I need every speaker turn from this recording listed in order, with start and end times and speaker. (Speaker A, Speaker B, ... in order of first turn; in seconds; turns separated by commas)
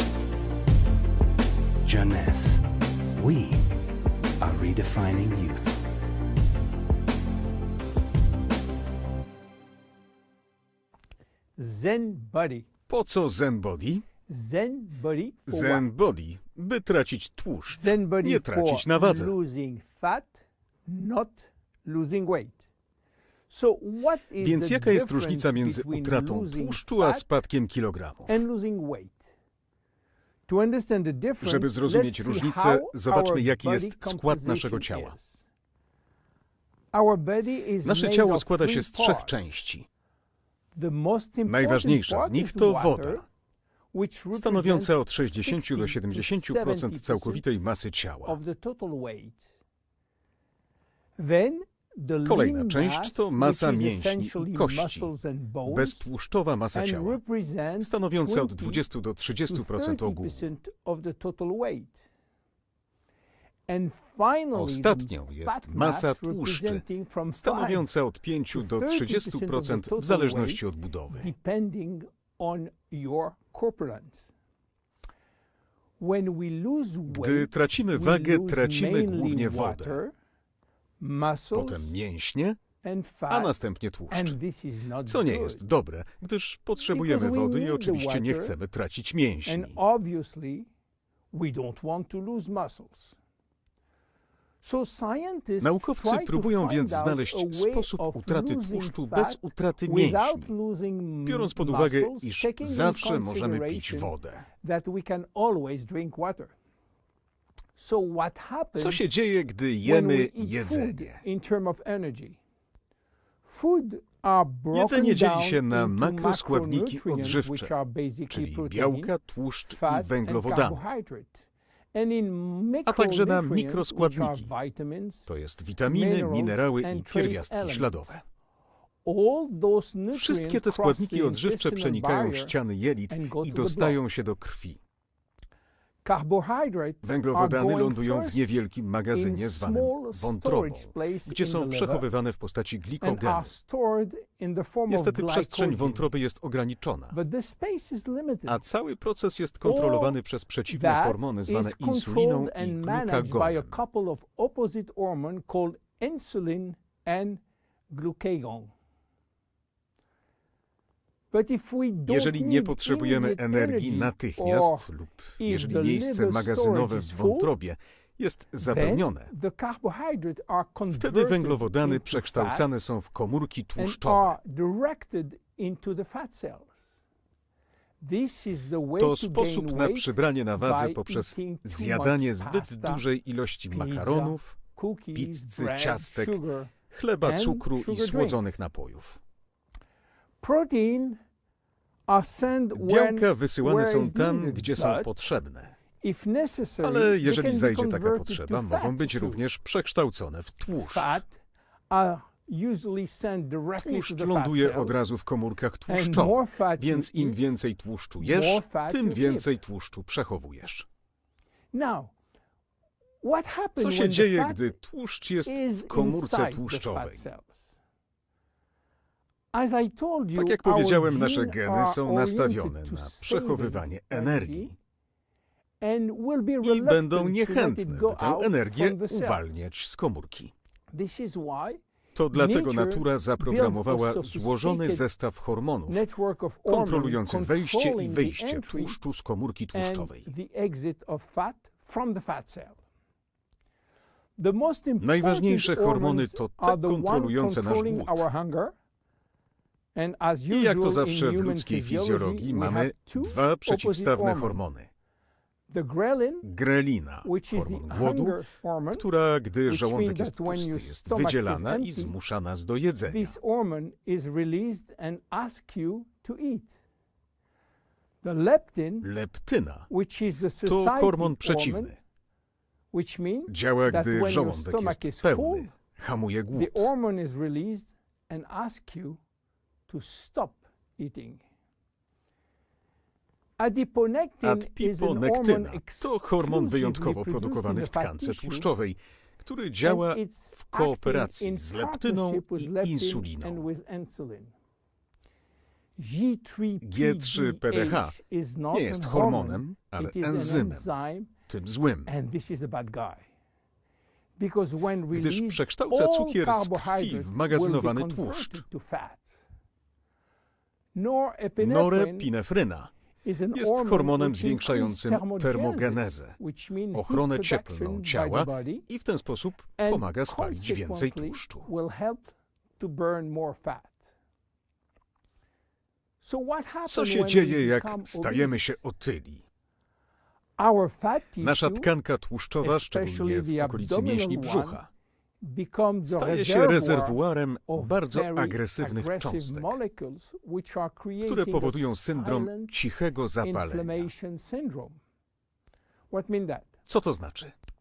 Speaker A: 1.8-2.6, Speaker A: 3.1-3.7, Speaker A: 4.4-5.8, Speaker B: 11.6-12.7, Speaker C: 12.9-14.1, Speaker B: 14.3-15.8, Speaker C: 15.5-19.4, Speaker B: 17.7-22.6, Speaker B: 23.5-27.3, Speaker C: 24.4-28.4, Speaker B: 28.3-29.3, Speaker B: 30.5-35.5, Speaker C: 31.4-35.1, Speaker B: 36.9-39.5, Speaker C: 37.8-39.9, Speaker B: 40.8-43.2, Speaker C: 41.5-43.2, Speaker B: 43.9-47.4, Speaker C: 44.3-48.4, Speaker B: 48.2-49.5, Speaker B: 51.2-56.1, Speaker C: 52.2-55.1, Speaker C: 55.6-57.2, Speaker B: 56.7-58.8, Speaker C: 57.8-60.5, Speaker B: 59.5-62.1, Speaker B: 63.7-67.9, Speaker C: 64.5-66.8, Speaker C: 67.4-71.3, Speaker B: 68.5-74.3, Speaker B: 76.0-80.1, Speaker C: 77.1-80.0, Speaker B: 81.0-82.0, Speaker C: 81.5-82.6, Speaker B: 82.8-83.6, Speaker C: 83.3-84.4, Speaker B: 84.1-85.7, Speaker C: 85.1-89.8, Speaker B: 86.8-88.6, Speaker B: 89.5-90.7, Speaker B: 91.3-93.1, Speaker B: 94.6-106.5, Speaker C: 95.6-100.5, Speaker C: 101.2-104.5, Speaker B: 107.8-109.0, Speaker C: 108.8-111.2, Speaker B: 109.8-112.4, Speaker B: 113.5-119.1, Speaker C: 114.7-117.7, Speaker C: 118.3-120.8, Speaker B: 119.7-125.3, Speaker C: 122.9-124.5, Speaker C: 125.3-128.2, Speaker B: 125.8-128.0, Speaker B: 129.0-132.5, Speaker C: 130.1-134.8, Speaker B: 133.1-134.0, Speaker B: 136.0-138.5, Speaker C: 137.0-143.5, Speaker B: 139.1-142.0, Speaker B: 143.0-146.1, Speaker C: 144.9-147.2, Speaker B: 147.1-148.6, Speaker C: 148.5-153.8, Speaker B: 149.6-150.2, Speaker B: 150.7-158.7, Speaker B: 161.3-167.5, Speaker C: 162.1-169.3, Speaker B: 168.6-172.7, Speaker C: 170.9-174.4, Speaker B: 173.8-176.8, Speaker B: 178.0-183.0, Speaker C: 179.0-184.6, Speaker B: 183.7-188.5, Speaker C: 185.2-189.2, Speaker B: 190.4-191.2, Speaker B: 192.1-195.1, Speaker C: 192.7-195.8, Speaker B: 196.0-199.4, Speaker C: 196.8-201.2, Speaker B: 200.8-201.4, Speaker B: 201.9-205.0, Speaker C: 203.8-210.8, Speaker B: 205.9-207.4, Speaker B: 208.2-209.6, Speaker B: 211.7-212.1, Speaker B: 213.2-214.8, Speaker C: 213.8-217.3, Speaker B: 215.5-217.7, Speaker B: 219.5-224.7, Speaker C: 220.3-224.8, Speaker B: 225.8-229.4, Speaker C: 226.6-230.5, Speaker B: 230.9-231.8, Speaker C: 232.2-236.0, Speaker B: 232.3-235.1, Speaker B: 235.9-239.0, Speaker C: 236.7-240.3, Speaker B: 239.7-242.8, Speaker B: 244.4-248.7, Speaker C: 245.0-248.3, Speaker B: 249.9-254.6, Speaker C: 250.5-254.9, Speaker B: 255.7-256.5, Speaker C: 256.4-258.4, Speaker B: 257.2-259.1, Speaker C: 258.9-263.4, Speaker B: 259.6-262.1, Speaker B: 263.1-266.7, Speaker B: 268.2-269.1, Speaker C: 269.0-269.9, Speaker B: 269.9-271.9, Speaker C: 270.6-271.9, Speaker B: 272.9-275.7, Speaker C: 273.5-276.9, Speaker B: 276.5-279.2, Speaker B: 279.9-281.4, Speaker B: 283.6-288.7, Speaker C: 284.4-293.7, Speaker B: 289.8-294.5, Speaker B: 296.0-301.3, Speaker C: 296.8-298.1, Speaker C: 298.7-300.9, Speaker C: 301.5-302.1, Speaker B: 302.1-303.2, Speaker B: 304.4-309.4, Speaker C: 305.1-308.6, Speaker B: 310.9-312.3, Speaker C: 311.6-312.9, Speaker B: 313.2-318.9, Speaker C: 313.5-316.4, Speaker C: 316.9-321.7, Speaker B: 319.8-324.0, Speaker B: 326.2-328.8, Speaker C: 326.8-329.4, Speaker B: 330.6-331.9, Speaker C: 331.4-334.9, Speaker B: 332.6-334.8, Speaker B: 335.4-342.7, Speaker C: 336.1-339.8, Speaker C: 341.2-344.1, Speaker B: 343.4-345.0, Speaker B: 346.1-346.7, Speaker C: 346.9-347.5